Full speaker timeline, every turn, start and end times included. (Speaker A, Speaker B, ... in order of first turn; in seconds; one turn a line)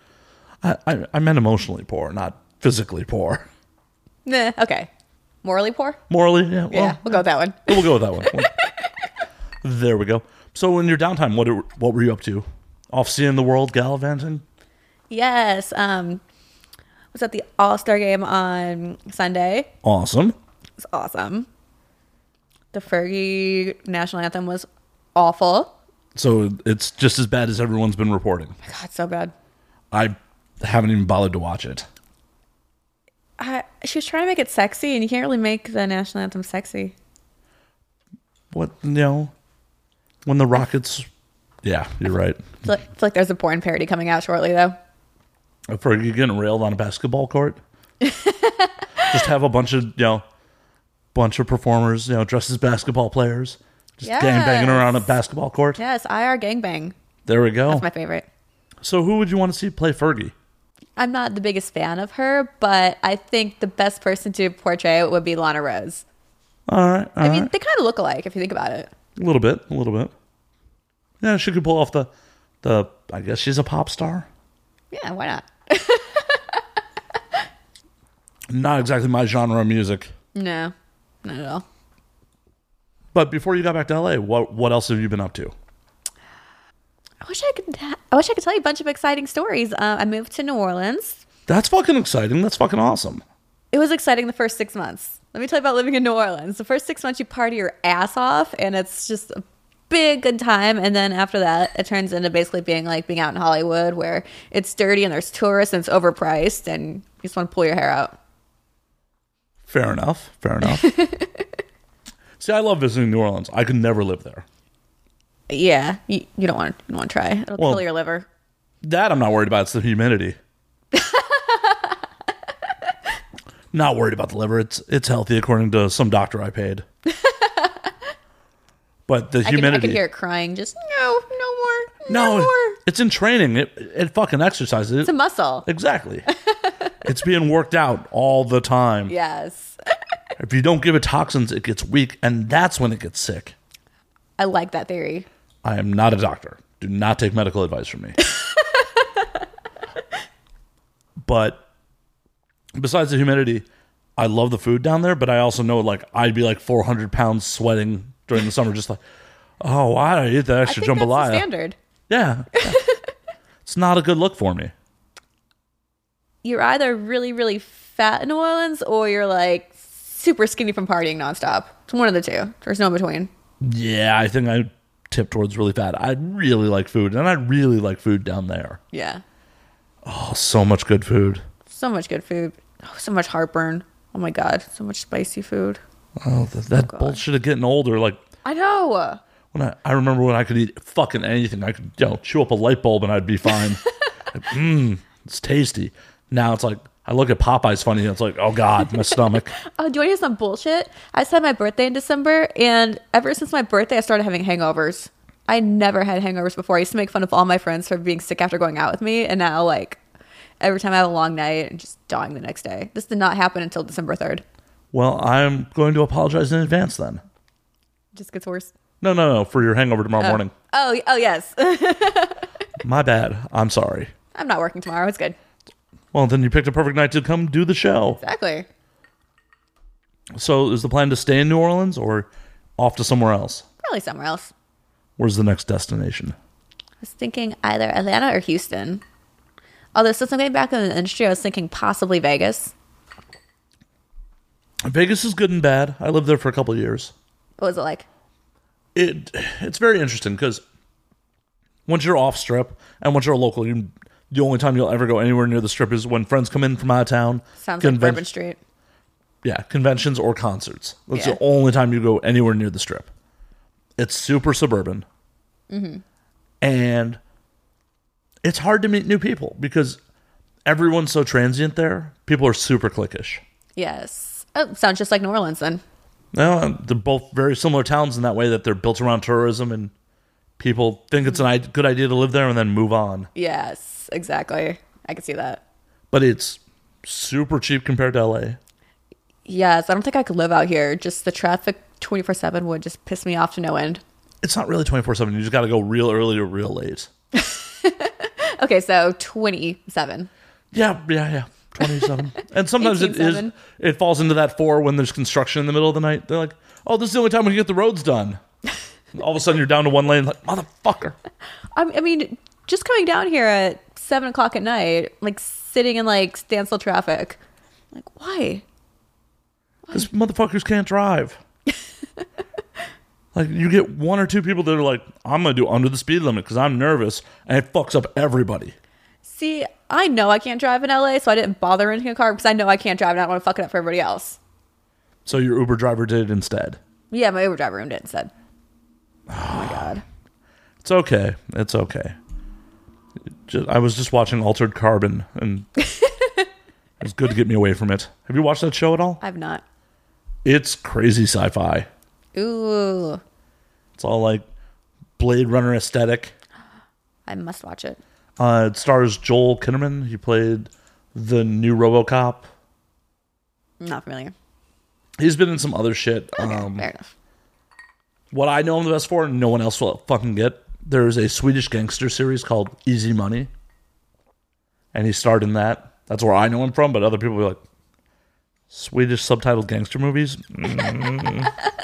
Speaker A: 0.6-3.5
Speaker B: 4.2-4.9
Speaker B: 5.4-6.0
Speaker A: 6.1-8.5
Speaker B: 6.7-8.9
Speaker A: 9.6-14.4
Speaker B: 15.1-16.2
Speaker B: 17.1-19.7
Speaker A: 19.8-20.3
Speaker B: 20.8-21.5
Speaker B: 22.7-25.7
Speaker A: 26.1-28.6
Speaker B: 28.6-29.3
Speaker A: 29.9-31.9
Speaker B: 33.4-36.9
Speaker A: 38.5-39.3
Speaker A: 40.2-41.1
Speaker A: 41.6-42.6
Speaker B: 42.6-44.8
Speaker A: 45.7-47.6
Speaker B: 48.0-48.7
Speaker A: 49.0-50.2
Speaker A: 51.1-55.8
Speaker B: 54.0-55.1
Speaker B: 55.8-57.0
Speaker A: 57.2-57.9
Speaker B: 57.7-58.2
Speaker A: 58.8-60.3
Speaker B: 61.0-66.0
Speaker A: 66.7-67.5
Speaker B: 67.2-68.9
Speaker A: 69.2-70.1
Speaker A: 71.2-72.1
Speaker A: 72.6-74.3
Speaker B: 74.9-76.6
Speaker A: 78.5-80.1
Speaker B: 80.3-80.7
Speaker B: 81.2-81.6
Speaker A: 83.1-85.5
Speaker B: 87.2-91.2
Speaker A: 91.5-93.2
Speaker B: 93.7-108.1
Speaker A: 109.7-111.1
Speaker B: 110.7-111.4
Speaker A: 112.4-114.4
Speaker B: 115.5-118.3
Speaker A: 117.6-117.8
Speaker A: 118.8-120.4
Speaker B: 120.9-122.0
Speaker A: 123.7-126.8
Speaker B: 127.1-127.9
Speaker A: 129.1-130.0
Speaker B: 129.4-132.8
Speaker A: 132.1-135.1
Speaker B: 135.0-135.7
Speaker A: 135.6-136.3
Speaker B: 136.3-136.9
Speaker A: 137.0-139.1
Speaker B: 139.1-139.8
Speaker A: 140.4-143.5
Speaker B: 144.4-145.3
Speaker A: 145.6-148.2
Speaker B: 148.2-149.4
Speaker A: 151.2-151.6
Speaker A: 152.8-153.6
Speaker A: 154.2-159.0
Speaker A: 159.6-161.5
Speaker B: 160.6-161.8
Speaker A: 162.1-162.8
Speaker B: 162.6-162.9
Speaker A: 163.6-164.7
Speaker B: 166.4-173.3
Speaker A: 173.6-178.8
Speaker B: 178.9-179.2
Speaker A: 180.0-181.4
Speaker B: 181.7-185.8
Speaker A: 186.2-188.2
Speaker B: 186.8-187.2
Speaker B: 188.4-189.2
Speaker A: 189.5-193.8
Speaker A: 194.3-199.5
Speaker B: 199.0-210.0
Speaker B: 210.6-214.4
Speaker A: 214.9-217.2
Speaker B: 218.1-218.7
Speaker A: 219.0-220.5
Speaker B: 220.2-222.5
Speaker A: 222.8-224.1
Speaker B: 224.3-225.4
Speaker A: 226.1-228.2
Speaker B: 228.2-228.7
Speaker A: 230.3-233.6
Speaker B: 233.8-234.5
Speaker A: 235.2-236.3
Speaker B: 237.0-239.0
Speaker B: 239.9-242.7
Speaker A: 244.8-247.1
Speaker B: 247.6-248.0
Speaker A: 248.9-250.6
Speaker A: 251.9-258.2
Speaker B: 257.6-258.6
Speaker A: 259.4-263.1
Speaker A: 264.0-265.1
Speaker B: 265.7-266.0
Speaker A: 266.6-267.2
Speaker A: 268.4-270.0
Speaker A: 270.6-273.4
Speaker B: 273.8-275.8
Speaker A: 276.3-279.9
Speaker A: 280.6-283.3
Speaker B: 283.3-285.6
Speaker A: 286.1-288.6
Speaker B: 289.4-294.0
Speaker A: 294.4-297.1
Speaker B: 297.3-300.3
Speaker A: 300.7-308.4
Speaker B: 301.8-302.1
Speaker B: 302.8-303.5
Speaker A: 309.1-311.2
Speaker B: 311.7-317.4
Speaker B: 317.9-318.6
Speaker A: 319.9-321.4
Speaker A: 323.3-328.7
Speaker B: 329.2-334.4
Speaker A: 335.2-336.8
Speaker B: 337.1-338.3
Speaker A: 339.3-339.9
Speaker B: 339.5-340.0
Speaker A: 340.8-342.1
Speaker A: 343.4-345.7
Speaker B: 346.0-346.3
Speaker A: 347.0-349.2
Speaker B: 349.2-349.6
Speaker A: 350.4-351.9
Speaker B: 352.3-353.2
Speaker A: 354.0-354.4
Speaker A: 355.2-356.3
Speaker B: 357.2-358.0
Speaker A: 358.4-362.5
Speaker B: 363.8-364.3
Speaker A: 365.2-366.9
Speaker B: 366.3-367.1
Speaker A: 368.3-373.5
Speaker A: 374.9-377.6
Speaker A: 378.7-381.5